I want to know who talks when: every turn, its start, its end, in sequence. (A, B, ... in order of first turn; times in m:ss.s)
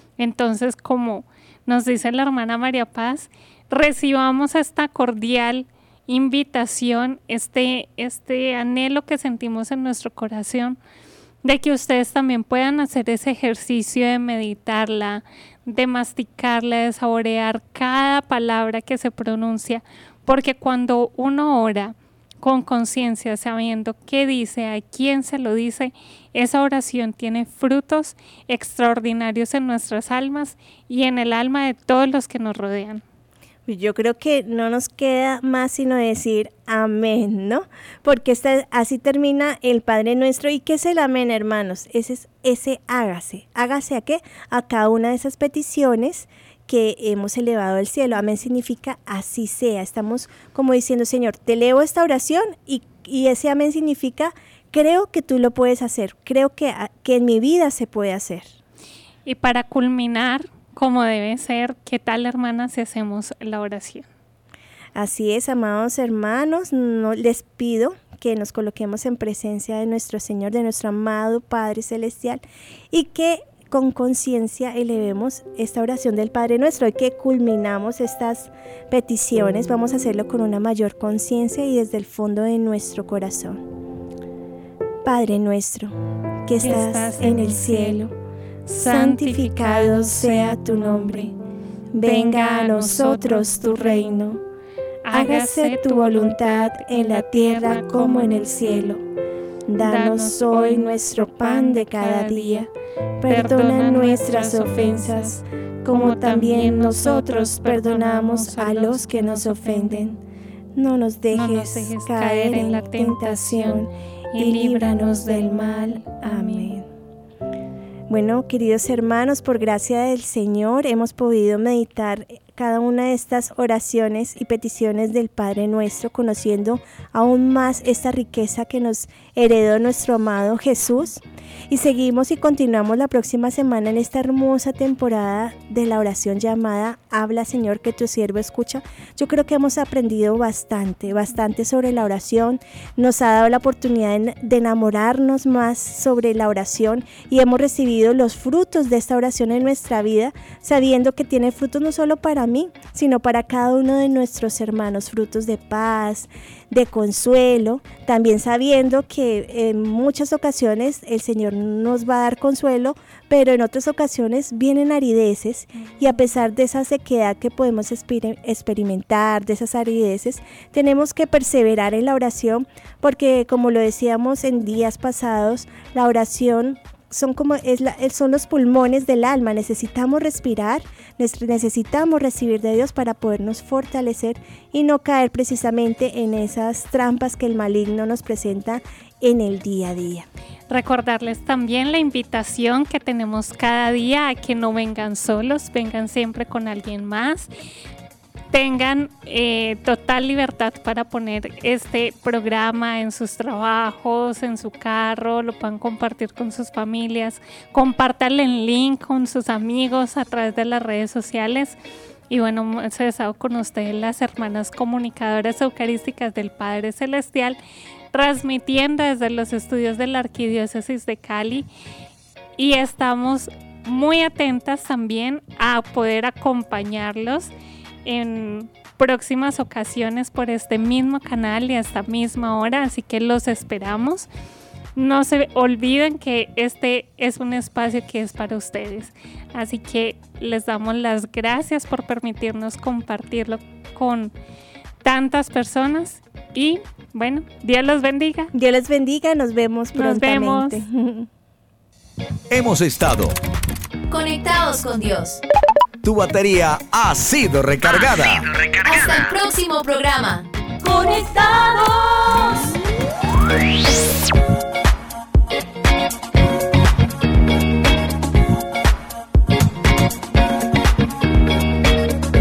0:00.2-0:10.8 A
0:11.4-0:33.0 A
0:33.6-0:58.5 B
0:59.2-1:04.1 A
1:05.0-1:23.6 B
1:25.0-1:28.1 B
1:26.6-1:28.0 A
1:28.6-1:31.3 A
1:28.7-1:31.3 B
1:31.9-1:34.4 B
1:32.0-1:34.3 A
1:35.0-1:38.9 A
1:35.1-1:39.0 B
1:39.7-1:42.7 B
1:39.8-1:42.7 A
1:43.2-1:50.2 B
1:43.2-1:50.2 A
1:50.7-1:56.8 B
1:51.3-1:56.8 A
1:58.1-3:10.3 B
3:10.7-3:17.5 A
3:18.5-3:31.8 A
3:32.3-3:37.6 A
3:38.1-3:41.7 A
3:42.6-3:47.5 A
3:48.0-3:54.3 A
3:55.0-4:04.3 A
4:05.0-4:08.5 A
4:08.5-4:11.3 B
4:10.0-4:10.8 A
4:12.5-4:13.3 C
4:14.1-4:15.4 D
4:16.0-4:18.4 C
4:18.8-4:22.7 D